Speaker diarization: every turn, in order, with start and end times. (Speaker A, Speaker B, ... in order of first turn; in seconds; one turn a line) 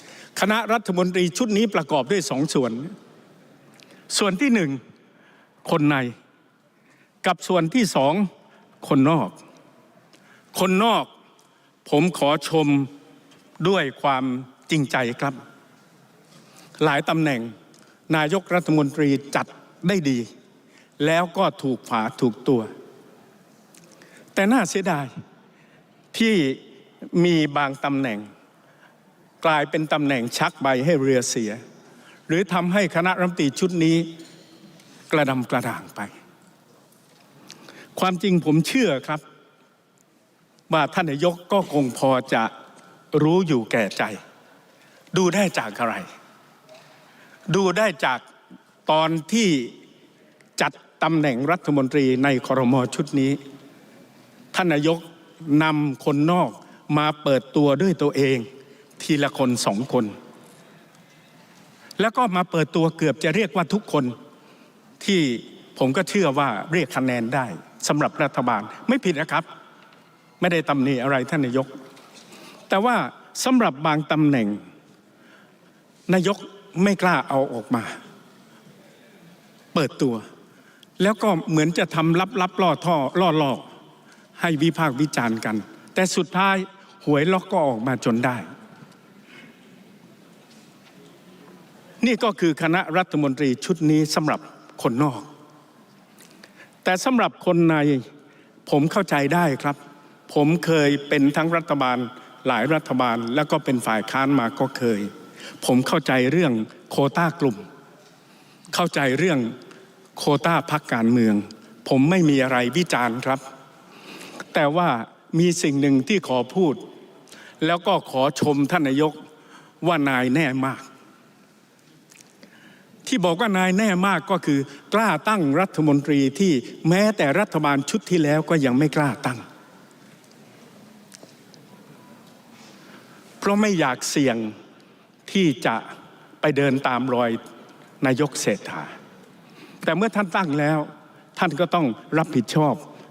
Speaker A: 0.3-2.9
Speaker A: 4.1-4.8
Speaker A: 5.6-6.1
Speaker A: 7.2-8.3
Speaker A: 8.8-9.4
Speaker A: 10.5-11.1
Speaker A: 11.8-12.9
Speaker A: 13.6-15.4
Speaker A: 16.8-17.5
Speaker A: 18.1-20.3
Speaker A: 21.0-22.7
Speaker A: 24.3-25.1
Speaker A: 26.1-28.3
Speaker A: 29.4-31.6
Speaker A: 32.3-34.1
Speaker A: 35.1-36.1
Speaker A: 38.0-39.2
Speaker A: 40.7-42.5
Speaker A: 43.1-44.2
Speaker A: 45.1-46.1
Speaker A: 47.5-48.2
Speaker A: 48.9-49.7
Speaker A: 50.6-53.4
Speaker A: 54.5-58.5
Speaker A: 59.0-60.1
Speaker A: 62.0-64.1
Speaker A: 65.0-69.5
Speaker A: 70.4-71.7
Speaker A: 72.7-74.6
Speaker A: 76.1-78.0
Speaker A: 79.7-80.2
Speaker A: 81.0-83.6
Speaker A: 84.4-88.5
Speaker A: 92.0-95.3
Speaker A: 96.8-98.1
Speaker A: 98.7-105.1
Speaker A: 105.6-107.6
Speaker A: 108.7-109.5
Speaker A: 110.2-113.4
Speaker A: 114.5-116.8
Speaker A: 117.6-119.2
Speaker A: 119.8-120.9
Speaker A: 123.0-129.4
Speaker A: 133.4-134.5
Speaker A: 135.3-135.9
Speaker A: 136.4-137.4
Speaker A: 138.0-138.9
Speaker A: 139.8-142.8